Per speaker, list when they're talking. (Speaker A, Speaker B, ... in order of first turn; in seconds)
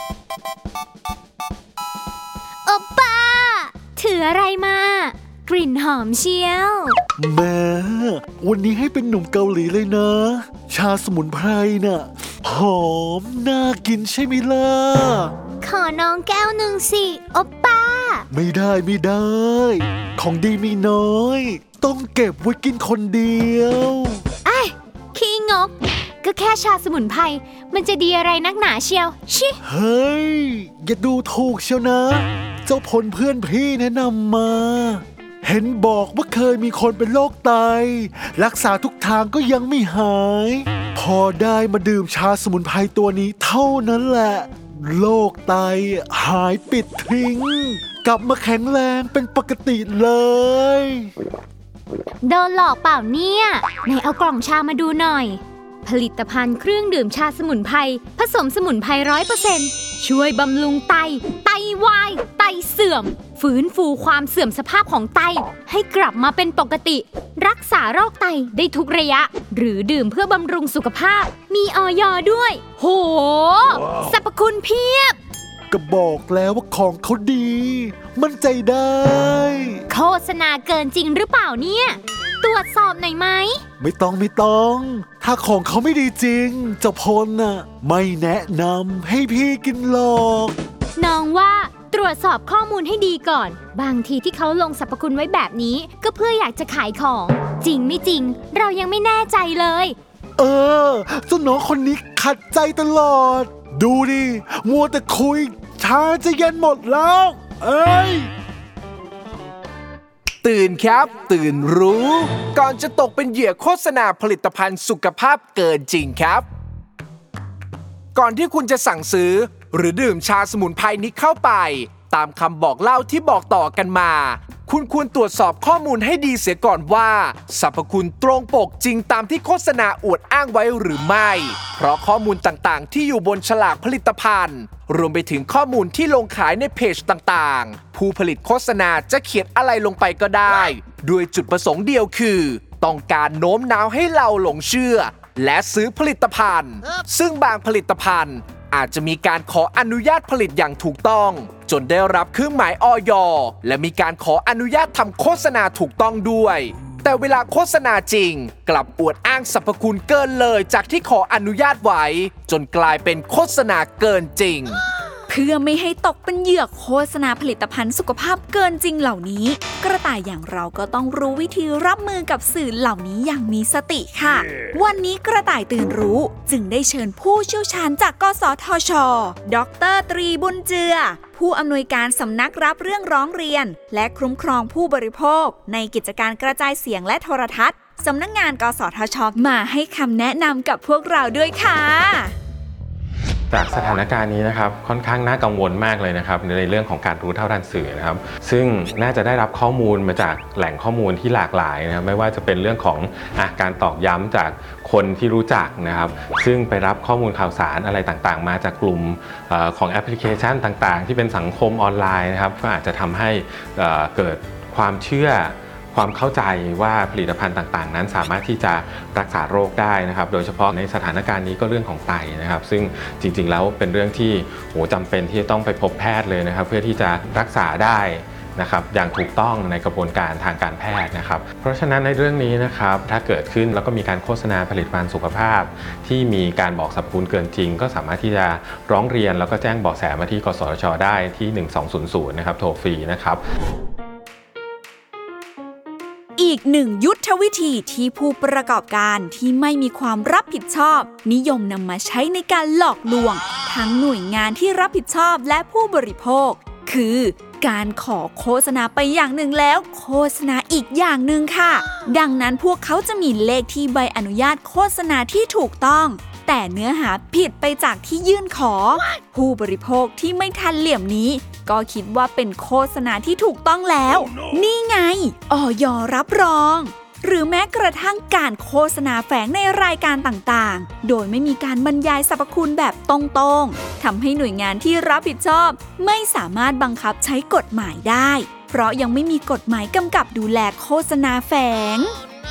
Speaker A: 2.6-7.0, 15.6-18.3, 24.4-29.6, 52.2-75.2, 79.9-83.6, 91.0-100.0
Speaker B: 7.2-15.3, 18.3-24.2, 29.6-51.1, 75.7-79.8, 83.8-90.6, 100.4-108.3
Speaker C: 110.4-116.5, 118.2-164.8
Speaker D: 165.3-192.3, 246.4-292.1
Speaker E: 193.5-243.4